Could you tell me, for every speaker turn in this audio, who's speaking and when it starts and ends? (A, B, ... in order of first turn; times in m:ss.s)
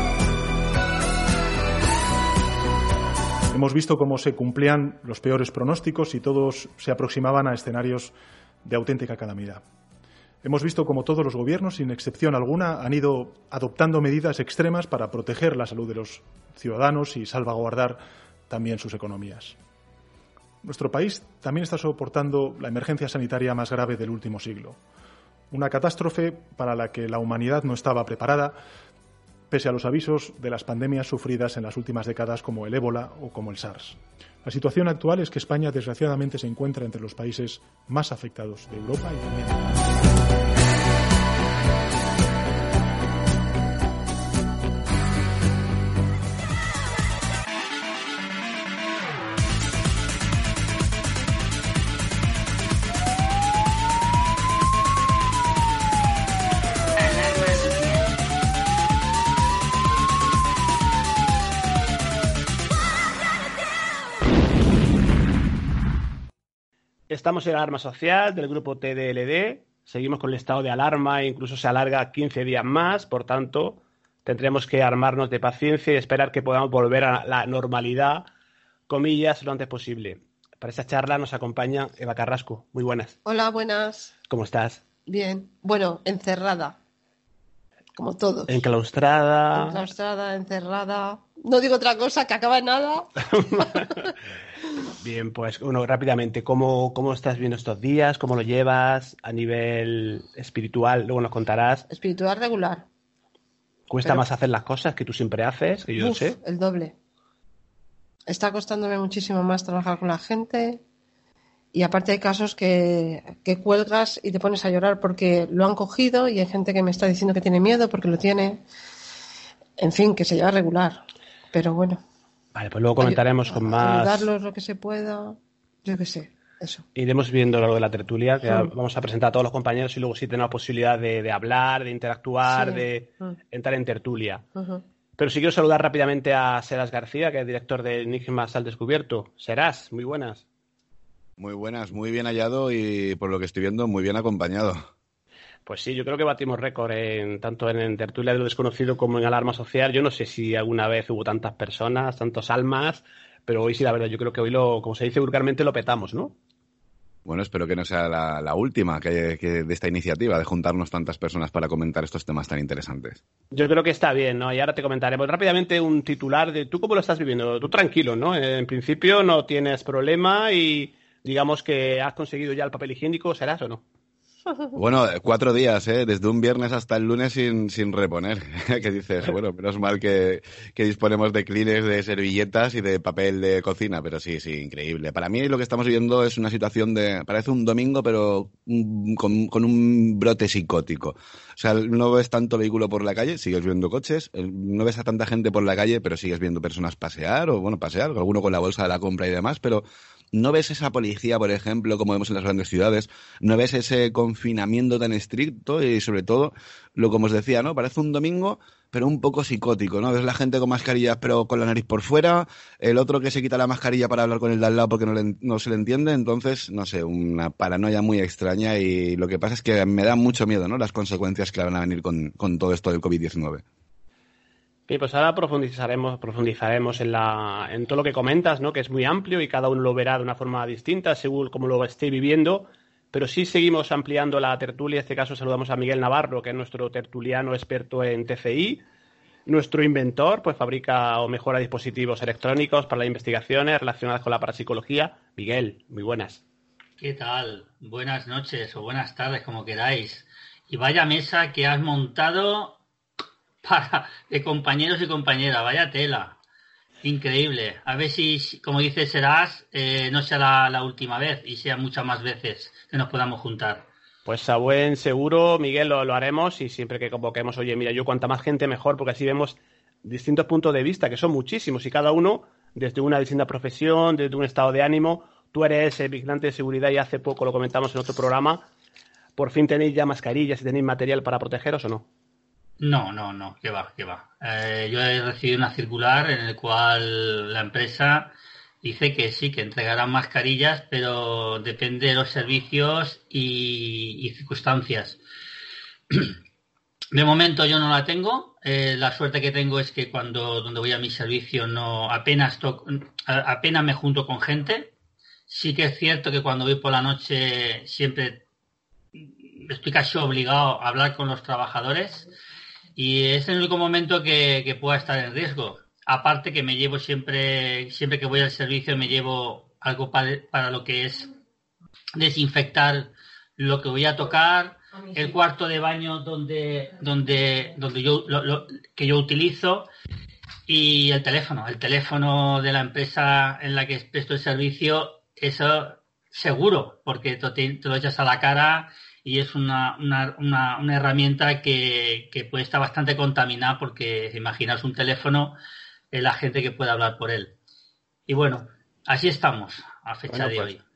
0:03.5-0:08.1 A
0:08.6-0:09.6 A
0:10.4-0:19.5 A
0:20.6-0:24.8 A
0:25.5-0:28.5 A
0:29.5-0:39.7 A
1:07.1-1:18.3 B
1:18.9-1:23.2 B
1:23.2-1:24.1 C
1:24.3-1:24.8 B
1:25.1-1:26.8 C
1:28.0-1:28.6 C
1:28.5-1:29.8 B
1:29.5-1:33.8 C
1:33.3-1:34.1 B
1:35.0-1:41.9 B
1:41.9-1:42.8 C
1:43.9-1:46.4 B
1:46.0-1:46.9 C
1:48.3-1:50.8 C
1:51.7-1:58.6 C
1:59.8-2:01.0 C
2:01.5-2:02.0 C
2:02.5-2:04.3 B
2:03.0-2:06.8 C
2:06.9-2:14.4 B
2:08.4-2:08.7 C
2:12.4-2:13.3 C
2:14.6-2:14.8 C
2:15.2-2:20.4 B
2:21.4-2:24.8 D
2:25.6-2:36.3 B
2:37.2-2:43.2 D
2:43.5-2:53.8 B
2:54.7-3:43.6 D
3:44.9-3:58.8 B
3:59.5-4:06.4 B
4:07.0-4:12.8 E
4:13.6-4:16.4 E
4:17.0-4:23.8 E
4:24.2-4:38.6 B
4:39.4-4:42.0 B
4:42.8-4:55.2 E
4:56.1-4:56.4 E
4:57.1-5:04.9 E
5:05.5-5:08.4 E
5:09.4-5:12.3 E
5:13.0-5:21.3 E
5:22.2-5:29.9 E
5:30.7-5:45.6 E
5:46.1-5:47.5 E
5:48.3-5:50.8 E
5:50.3-5:50.7 B